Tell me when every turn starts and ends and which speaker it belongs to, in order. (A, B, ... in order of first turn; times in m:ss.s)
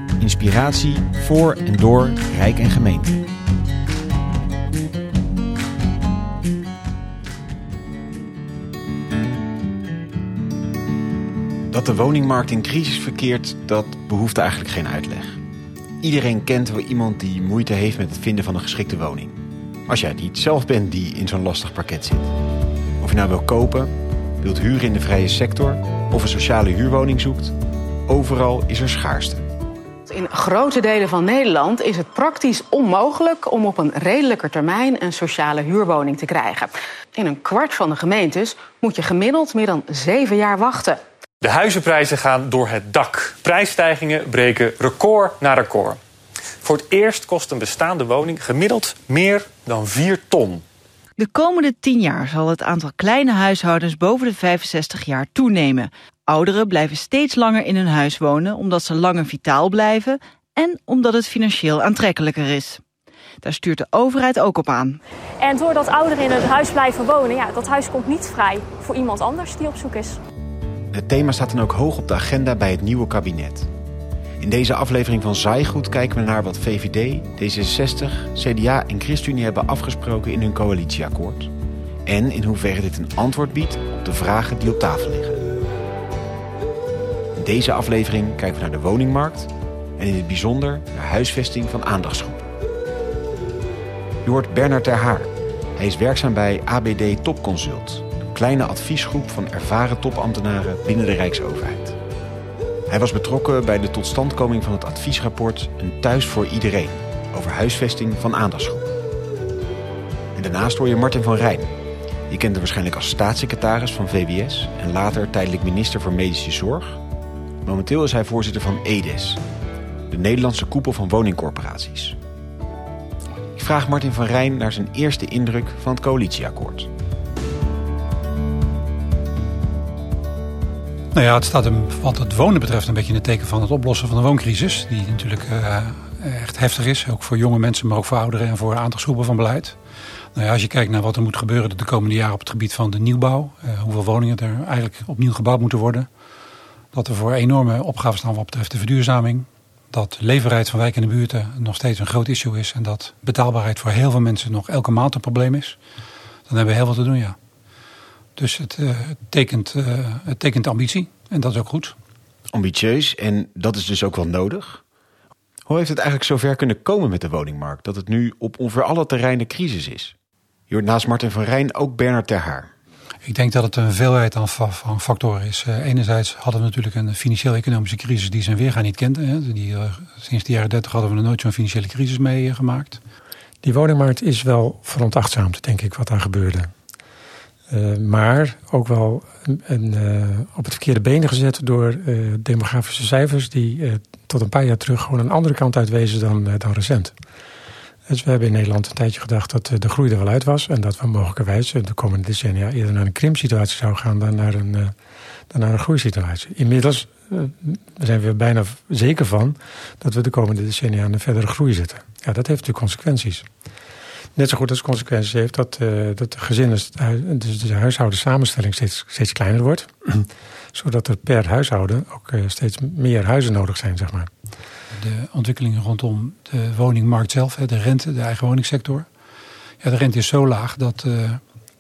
0:00.2-0:03.2 A
0:11.7-0:15.4 A
0:16.0-0:22.3 A
0:23.0-0:27.5 A
0:28.1-0:29.4 A
0:30.1-0:41.0 B
0:41.4-0:46.0 C
0:46.6-0:50.6 C
0:51.2-1:02.8 D
1:03.4-1:05.0 D
1:05.4-1:10.2 E
1:10.9-1:13.7 A
1:14.4-1:21.5 A
1:22.1-1:25.4 A
1:27.4-1:32.5 A
1:34.2-1:42.0 A
1:42.9-1:48.9 A
1:50.3-1:51.7 A
1:52.3-1:57.0 A
1:57.6-1:59.4 A
2:00.1-2:02.2 A
2:03.6-2:06.9 A
2:11.1-2:19.8 F
2:20.3-2:26.1 F
2:26.9-2:35.8 F
2:36.5-2:37.4 F
2:38.4-2:42.0 F
2:42.5-2:44.8 A
2:45.7-2:50.1 A
2:50.7-2:52.7 A
2:53.2-3:03.0 F
3:03.6-3:06.7 G
3:07.7-3:17.2 G
3:18.1-3:24.9 G
3:25.5-3:33.5 G
3:34.4-3:44.3 G
3:44.9-3:49.1 F
3:49.8-3:51.4 F